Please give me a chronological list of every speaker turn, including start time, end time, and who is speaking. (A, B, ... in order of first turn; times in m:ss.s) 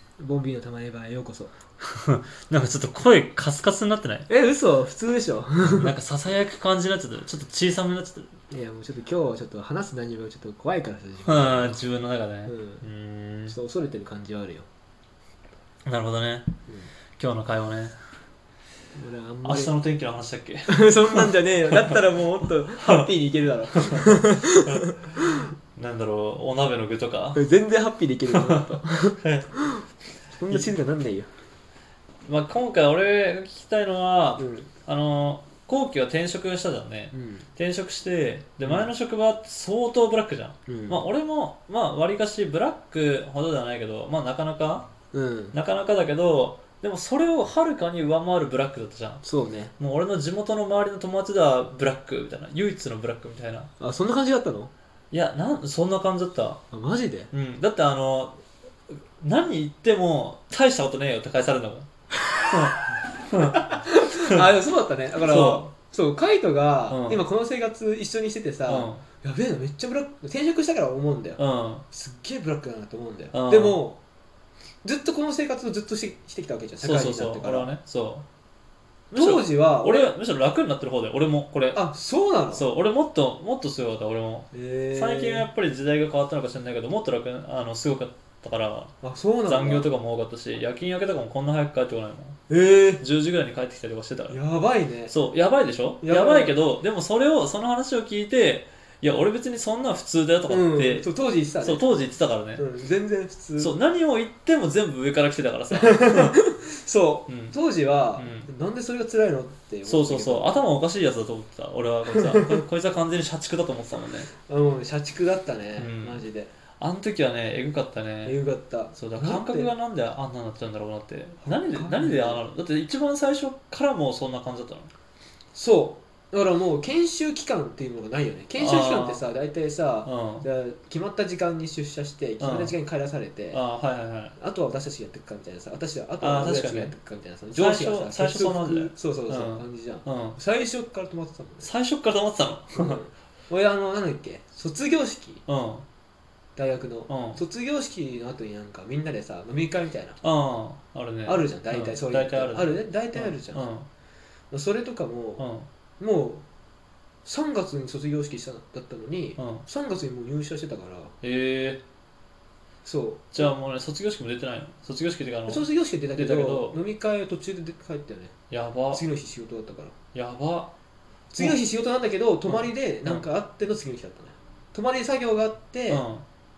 0:00.2-0:01.6 A
0:01.8-0:04.3 B
0:04.3-0:05.9 A
0:05.6-0:08.3 B
0:08.5-0:11.8 A
0:11.2-0:13.5 B
0:12.4-0:12.8 A
0:13.5-0:14.6 A
0:15.8-0:16.5 B
0:17.2-0:18.0 B
0:18.9-0:19.7 A
0:19.4-0:22.0 B
0:20.7-0:25.5 A
0:22.8-0:23.1 B
0:23.7-0:25.2 B
0:25.7-0:27.4 B
0:27.3-0:31.3 A
0:28.3-0:29.5 B
0:32.2-0:44.9 B
0:34.4-0:34.7 A
0:37.1-0:37.4 A
0:40.7-0:41.0 A
0:45.1-0:45.6 A
0:45.5-0:49.2 B
0:49.2-0:49.7 A
0:49.8-0:53.7 B
0:53.8-0:54.7 A
0:55.1-0:56.6 B
0:56.7-0:57.3 A
0:57.3-0:58.4 B
0:59.2-1:01.9 B
1:02.5-1:04.4 B
1:03.5-1:14.0 A
1:05.2-1:05.7 B
1:06.9-1:07.2 B
1:08.7-1:09.0 B
1:11.4-1:11.8 B
1:13.3-1:13.8 B
1:14.8-1:17.7 A
1:16.8-1:18.2 B
1:19.1-1:21.8 B
1:19.1-1:20.1 A
1:21.7-1:22.6 A
1:22.5-1:28.9 B
1:24.5-1:25.5 A
1:29.0-1:29.9 A
1:29.4-1:32.4 B
1:32.5-1:33.0 A
1:33.0-1:34.4 B
1:34.3-1:35.1 A
1:35.1-1:41.1 B
1:36.0-1:36.5 A
1:40.5-1:41.9 A
1:41.6-1:42.6 B
1:42.6-1:43.7 A
1:43.6-1:46.4 B
1:45.7-1:50.6 A
1:47.3-1:47.6 B
1:48.2-1:48.5 B
1:49.8-1:54.3 B
1:52.1-1:52.6 A
1:54.4-1:56.5 A
1:55.8-1:56.2 B
1:56.8-1:58.4 B
1:58.2-1:59.7 A
1:58.9-2:04.9 B
2:01.4-2:02.4 A
2:05.5-2:13.6 A
2:08.6-2:09.2 B
2:10.0-2:10.4 B
2:12.4-2:12.7 B
2:13.5-2:14.4 B
2:14.4-2:21.7 A
2:16.2-2:16.9 B
2:17.5-2:20.4 B
2:21.6-2:23.0 B
2:22.7-2:25.4 A
2:25.5-2:25.8 B
2:26.6-2:30.2 A
2:27.1-2:27.4 B
2:30.2-2:33.9 B
2:31.2-2:33.6 A
2:34.5-2:35.4 A
2:35.4-2:35.7 B
2:36.0-2:36.4 A
2:37.2-2:41.1 A
2:39.4-2:39.6 B
2:41.2-2:41.8 B
2:42.8-2:43.5 A
2:43.3-2:46.8 B
2:45.5-2:48.3 A
2:48.5-2:49.0 B
2:48.9-2:49.9 A
2:50.1-2:50.7 B
2:51.3-2:56.0 A
2:52.5-2:53.2 B
2:55.9-2:56.2 B